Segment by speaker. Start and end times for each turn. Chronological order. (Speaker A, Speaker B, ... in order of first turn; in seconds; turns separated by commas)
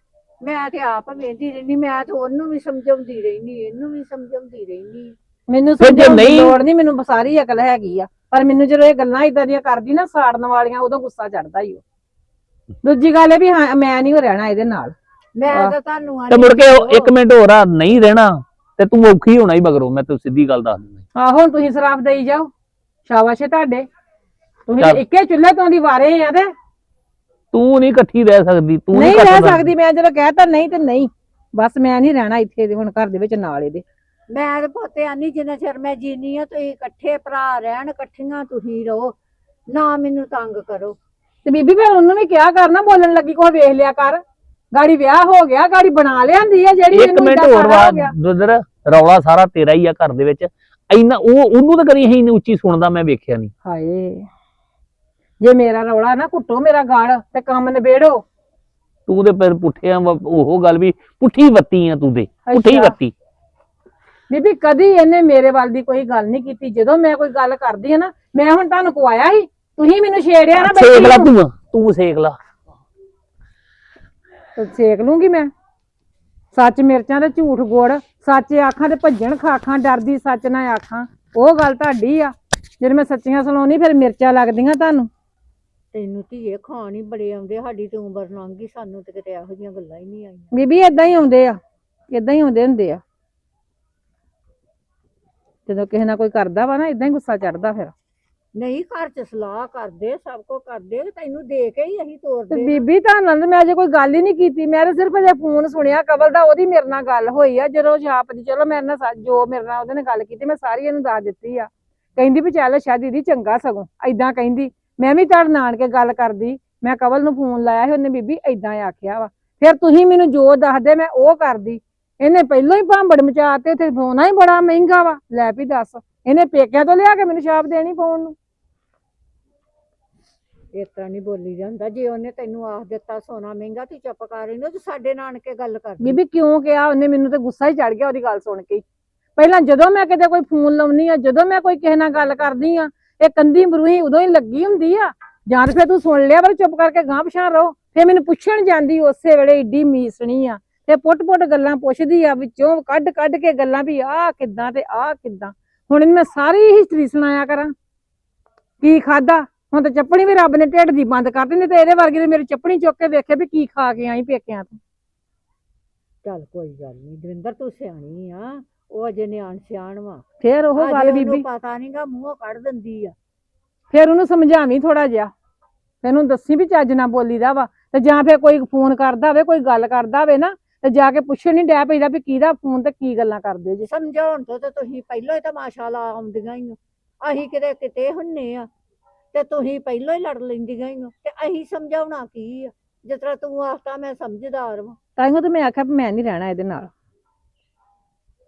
Speaker A: 0.4-5.1, Speaker B: 5.5-11.8, Speaker C: 5.8-6.6, Speaker B: 12.8-14.9, Speaker A: 15.4-17.1, Speaker C: 16.3-21.0, Speaker B: 21.2-22.5, Speaker B: 23.1-23.9, Speaker B: 24.7-26.5, Speaker C: 27.5-29.7, Speaker B: 28.9-33.8, Speaker A: 34.3-39.2, Speaker A: 39.7-41.0, Speaker B: 41.5-44.2, Speaker B: 44.7-48.1, Speaker C: 46.9-53.5, Speaker B: 53.6-54.3, Speaker B: 55.4-58.2, Speaker C: 59.1-63.1, Speaker B: 62.5-63.0, Speaker B: 64.3-71.3, Speaker C: 70.6-72.4, Speaker B: 74.6-75.5, Speaker B: 76.5-85.1, Speaker A: 85.9-90.5, Speaker B: 90.5-91.6, Speaker B: 92.1-93.0, Speaker B: 95.7-97.9, Speaker A: 98.6-102.8, Speaker B: 102.5-128.3, Speaker A: 130.7-136.2, Speaker B: 136.0-138.8, Speaker B: 139.4-157.7, Speaker B: 158.8-164.8, Speaker A: 166.2-170.2, Speaker B: 170.4-171.4, Speaker A: 170.8-173.1, Speaker B: 173.9-175.3, Speaker B: 176.0-183.9, Speaker A: 183.8-188.7, Speaker A: 189.3-195.0, Speaker B: 195.2-196.9